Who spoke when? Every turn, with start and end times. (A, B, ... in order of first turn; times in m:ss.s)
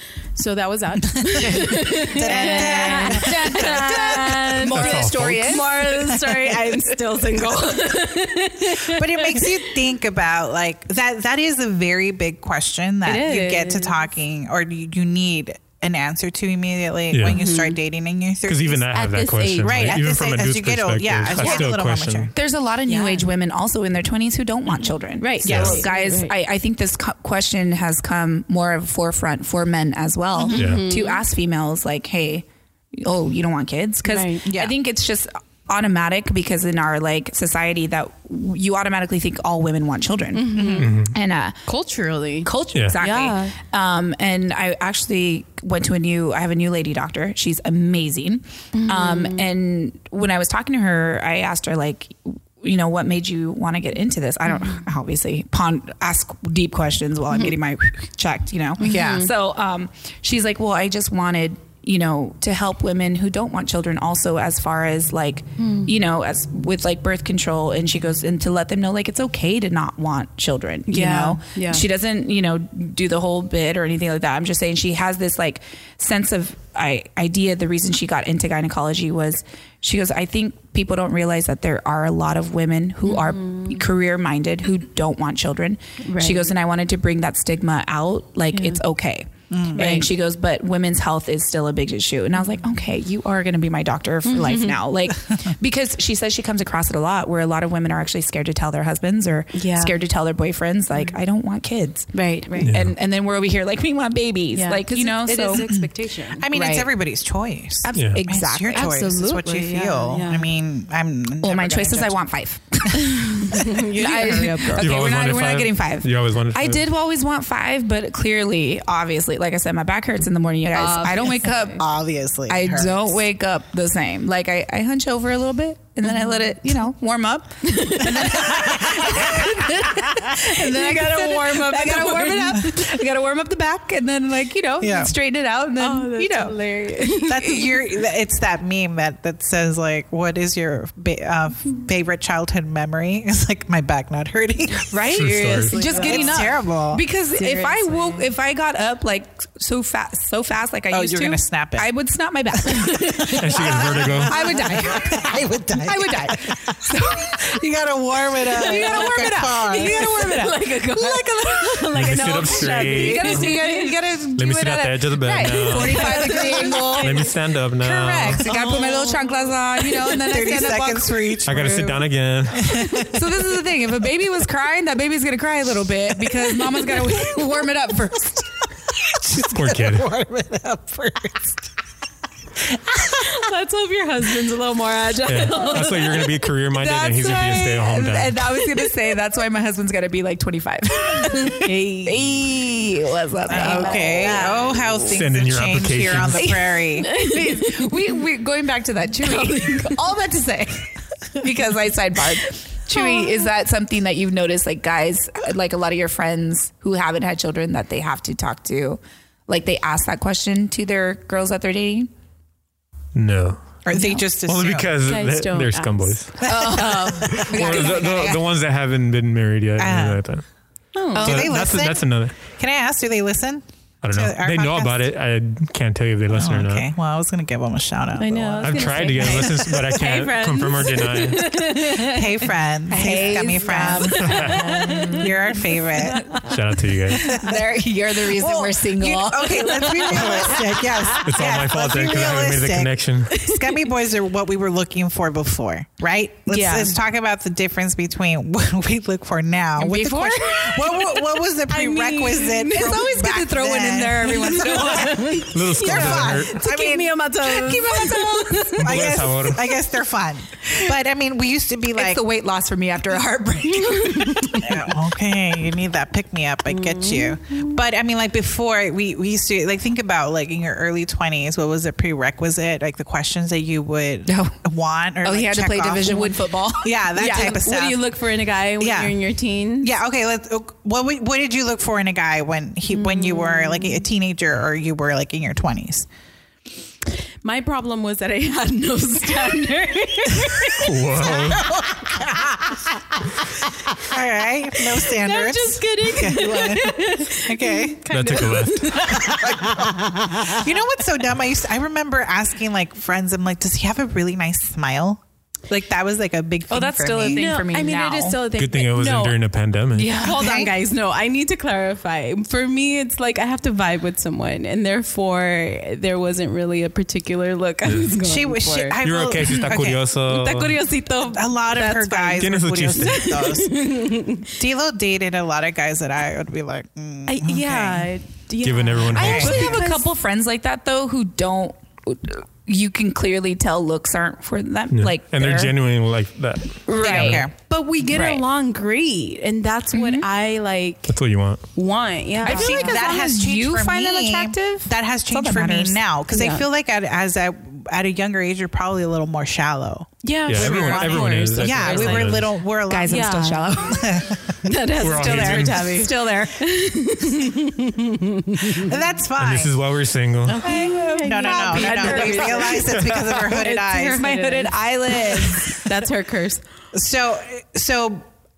0:00.3-0:09.8 A
0:01.1-0:04.0 B
0:02.2-0:06.0 C
0:04.7-0:05.7 D
0:08.8-0:18.8 B
0:13.0-0:14.1 A
0:17.1-0:17.4 D
0:17.2-0:17.8 A
0:18.5-0:22.3 D
0:18.9-0:20.0 A
0:19.6-0:22.3 B
0:21.4-0:21.7 A
0:22.4-0:41.6 C
0:22.9-0:23.3 A
0:25.2-0:26.3 A
0:25.4-0:25.8 D
0:30.5-0:31.2 A
0:30.6-0:30.9 D
0:34.0-0:34.4 A
0:34.5-0:34.8 B
0:40.3-0:41.0 A
0:40.6-0:40.9 B
0:40.8-0:41.2 D
0:41.7-0:43.6 A
0:42.4-1:45.7 C
0:48.7-0:49.5 A
0:58.8-0:59.3 A
0:58.8-0:59.3 B
1:05.6-1:05.9 A
1:10.9-1:11.8 A
1:23.0-1:23.8 A
1:26.0-1:26.5 A
1:28.5-1:28.8 A
1:29.5-1:29.9 B
1:29.7-1:30.1 A
1:34.2-1:34.8 A
1:39.5-1:40.0 A
1:42.1-1:42.8 A
1:42.6-1:42.9 D
1:44.5-1:46.5 A
1:45.5-1:52.2 B
1:46.5-1:46.9 C
1:47.8-1:48.9 C
1:47.9-1:48.2 D
1:48.7-1:50.5 A
1:51.4-2:01.8 C
1:52.9-1:55.0 A
1:54.8-1:56.8 D
2:00.7-2:01.8 A
2:01.8-2:03.2 B
2:02.5-2:16.6 C
2:07.6-2:12.8 A
2:08.1-2:09.5 B
2:14.8-2:15.1 B
2:15.8-2:17.8 A
2:17.3-2:25.2 B
2:24.9-2:37.6 C
2:25.1-2:25.8 D
2:25.6-2:26.6 A
2:25.8-2:27.0 B
2:27.3-2:28.3 A
2:30.9-2:31.9 B
2:32.6-2:40.1 B
2:33.3-2:34.4 D
2:38.5-2:47.2 C
2:38.5-2:43.9 A
2:41.9-2:43.5 D
2:44.4-2:48.5 D
2:45.5-2:47.3 A
2:47.8-2:48.7 B
2:48.4-2:51.3 C
2:48.4-2:50.1 A
2:50.0-2:53.2 B
2:51.4-2:52.8 D
2:52.7-2:58.6 C
2:56.7-2:57.1 B
2:59.0-3:01.7 B
2:59.4-3:00.1 D
3:02.7-3:03.3 B
3:03.1-3:06.4 A
3:05.3-3:08.6 D
3:06.7-3:15.2 C
3:11.2-3:12.2 A
3:13.5-3:17.2 B
3:13.5-3:14.9 A
3:15.1-3:16.6 D
3:16.3-3:32.1 C
3:17.0-3:18.0 A
3:19.3-3:19.8 A
3:23.0-3:23.4 A
3:33.1-3:33.8 D
3:33.9-3:34.9 B
3:33.9-3:34.2 C
3:34.4-3:40.4 D
3:35.0-3:37.4 A
3:36.4-3:38.4 C
3:36.4-3:37.4 B
3:39.8-3:40.2 B
3:40.9-3:41.3 A
3:41.1-3:41.6 C
3:41.2-3:42.4 D
3:41.2-3:45.0 B
3:44.0-3:46.9 D
3:46.3-3:49.8 B
3:48.2-3:52.5 A
3:48.6-3:51.6 D
3:51.9-3:56.4 B
3:52.9-3:55.3 C
3:53.7-3:56.5 A
3:54.2-3:54.6 D
3:56.4-3:57.3 D
3:57.1-4:00.7 C
3:57.2-3:57.6 B
3:58.3-4:15.1 B
3:59.7-4:01.2 A
4:01.2-4:03.3 D
4:03.3-4:03.9 A
4:06.5-4:07.0 A
4:09.8-4:10.7 C
4:10.4-4:13.1 A
4:12.7-4:15.4 C
4:14.2-4:19.0 A
4:15.5-4:16.6 D
4:15.8-4:17.2 B
4:17.4-4:18.8 C
4:18.8-4:19.7 D
4:18.8-4:22.2 B
4:22.0-4:24.9 C
4:23.7-4:24.7 A
4:24.5-4:38.0 B
4:26.7-4:27.8 A
4:34.3-4:34.6 C
4:35.2-4:37.6 C
4:37.2-4:39.9 A
4:38.8-4:39.2 B
4:39.8-4:46.1 B
4:42.9-4:44.0 A
4:47.4-4:51.4 A
4:50.7-4:51.6 D
4:51.2-4:52.9 B
4:53.9-4:58.1 B
4:54.9-4:59.9 A
4:58.1-4:59.2 D
4:58.9-5:07.5 B
5:06.7-5:08.4 C
5:07.3-5:09.4 A
5:08.5-5:10.2 D
5:10.0-5:19.0 A
5:10.0-5:10.4 C
5:10.1-5:10.7 B
5:18.2-5:20.0 B
5:19.0-5:20.8 D
5:20.3-5:24.5 A
5:21.3-5:28.1 B
5:22.4-5:23.3 D
5:27.3-5:30.1 A
5:28.6-5:29.8 D
5:29.1-5:35.7 C
5:29.2-5:29.8 B
5:34.9-5:37.4 D
5:36.9-5:37.5 C
5:37.0-5:37.5 B
5:37.0-5:41.2 A
5:38.1-5:38.4 C
5:39.9-5:40.3 C
5:41.1-5:41.6 D
5:41.8-5:43.1 A
5:42.4-5:46.0 C
5:42.4-5:54.6 B
5:46.3-5:46.7 A
5:50.2-5:52.4 A
5:50.5-5:52.5 D
5:52.9-5:54.2 C
5:53.0-5:53.7 A
5:54.6-5:59.0 A
5:55.0-5:55.9 D
5:55.2-5:56.6 C
5:58.7-5:59.8 B
5:59.4-6:00.6 D
6:00.5-6:06.6 A
6:00.6-6:02.9 C
6:01.2-6:04.3 B
6:02.9-6:03.4 D
6:04.0-6:05.9 C
6:06.9-6:08.2 B